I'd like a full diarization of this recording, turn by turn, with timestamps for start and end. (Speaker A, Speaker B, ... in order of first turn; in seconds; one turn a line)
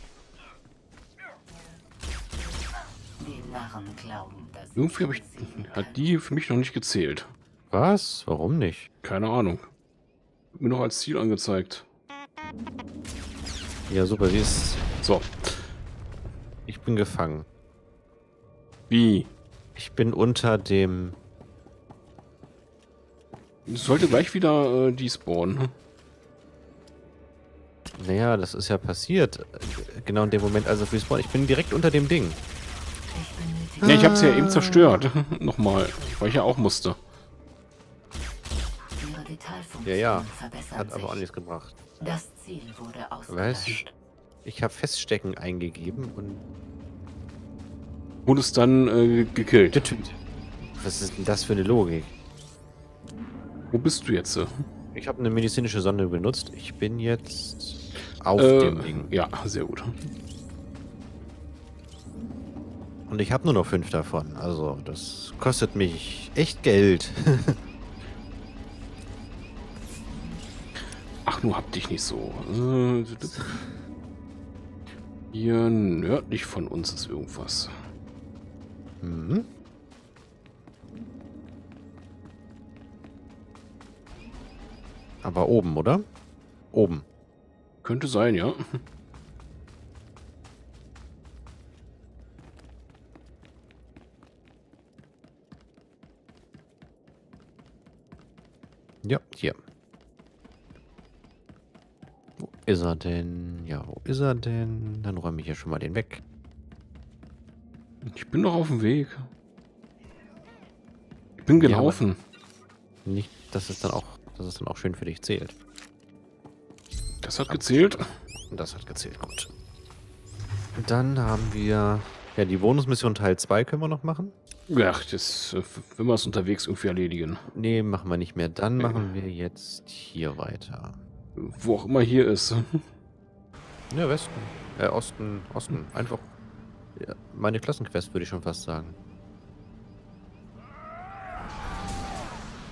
Speaker A: 3.2-6.0
Speaker B: 4.8-7.3
Speaker C: 7.7-8.9
Speaker B: 9.0-9.7
Speaker B: 10.5-11.8
Speaker C: 13.9-14.8
Speaker B: 15.0-15.7
Speaker C: 16.7-17.5
Speaker B: 18.9-19.3
Speaker C: 19.8-21.2
Speaker B: 23.7-25.7
Speaker C: 27.9-32.4
Speaker A: 33.1-33.8
Speaker C: 33.8-35.0
Speaker B: 33.8-37.0
Speaker A: 39.0-41.2
Speaker C: 39.8-41.7
Speaker A: 42.0-43.9
Speaker C: 43.3-43.8
Speaker C: 44.4-46.4
Speaker B: 48.2-49.8
Speaker C: 49.7-50.2
Speaker C: 50.8-52.1
Speaker B: 53.7-54.6
Speaker C: 54.9-59.1
Speaker B: 58.4-60.0
Speaker C: 63.1-67.6
Speaker B: 71.2-73.6
Speaker C: 73.2-73.6
Speaker B: 75.3-77.7
Speaker C: 79.0-79.5
Speaker C: 85.2-86.0
Speaker C: 86.7-87.0
Speaker B: 87.8-88.8
Speaker C: 99.0-99.6
Speaker C: 102.4-106.2
Speaker B: 108.0-109.3
Speaker B: 111.4-112.2
Speaker C: 111.5-112.0
Speaker C: 113.0-115.5
Speaker B: 117.2-118.0
Speaker C: 117.5-119.5
Speaker C: 120.8-124.3
Speaker B: 124.7-127.5
Speaker C: 127.5-131.0
Speaker B: 128.8-129.1
Speaker B: 131.3-132.8
Speaker C: 133.9-136.3
Speaker C: 136.9-139.0